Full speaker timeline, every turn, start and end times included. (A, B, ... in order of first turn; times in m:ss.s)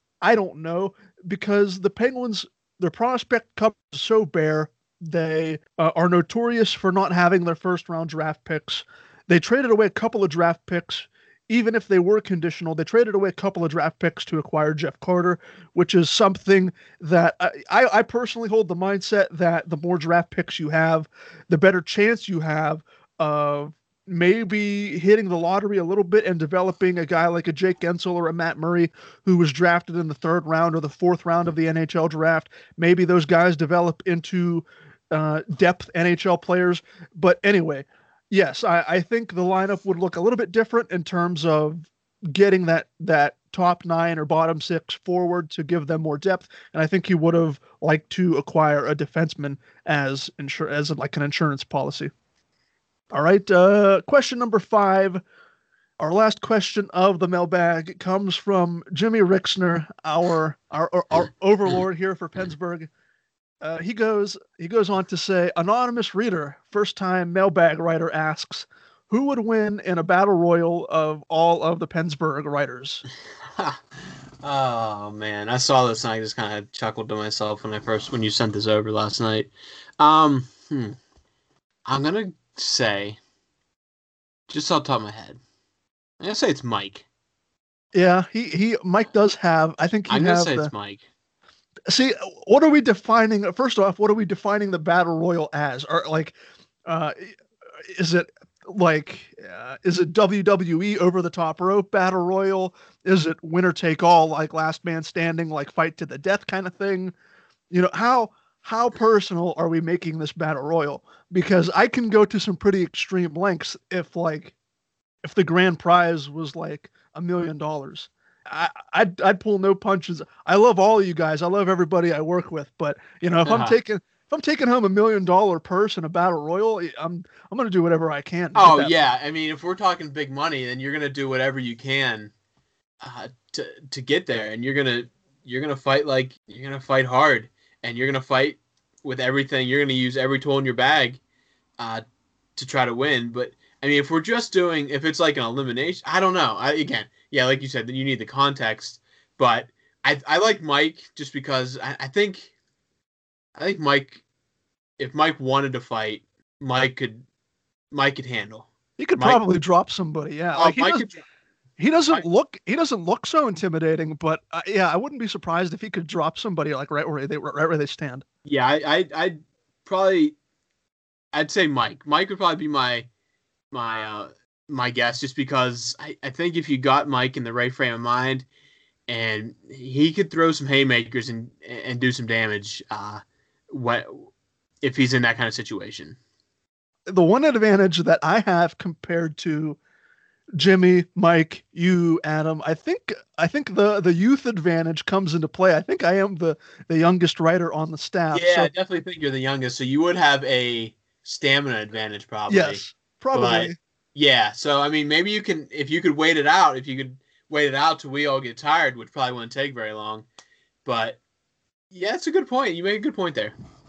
0:00.2-0:52.1 A
0:53.1-0:55.2 A
0:56.0-1:02.9 A
1:03.6-1:13.0 A
1:13.6-1:13.8 B
1:14.4-1:21.0 B
1:21.9-1:23.2 B
1:24.5-1:25.4 B
1:26.2-1:27.0 B
1:27.9-1:30.7 A
1:30.1-1:31.0 B
1:31.9-1:36.3 A
1:36.9-1:47.1 A
1:47.7-1:54.5 A
1:55.2-2:08.9 A
2:03.4-2:03.8 B
2:08.6-2:12.3 B
2:13.0-2:21.2 B
2:22.6-2:32.5 B
2:33.6-2:34.2 B
2:35.0-2:37.2 B
2:37.9-2:39.4 B
2:39.0-2:41.1 A
2:40.6-2:41.2 B
2:41.8-2:48.2 A
2:48.4-2:50.3 B
2:51.3-2:53.1 B
2:53.7-2:58.4 B
2:59.1-3:04.3 B
3:04.8-3:06.2 B
3:07.1-3:09.8 A
3:10.6-3:18.7 A
3:18.3-3:22.8 B
3:22.5-3:23.8 A
3:23.3-3:30.3 B
3:30.8-3:31.2 B
3:31.9-3:33.5 B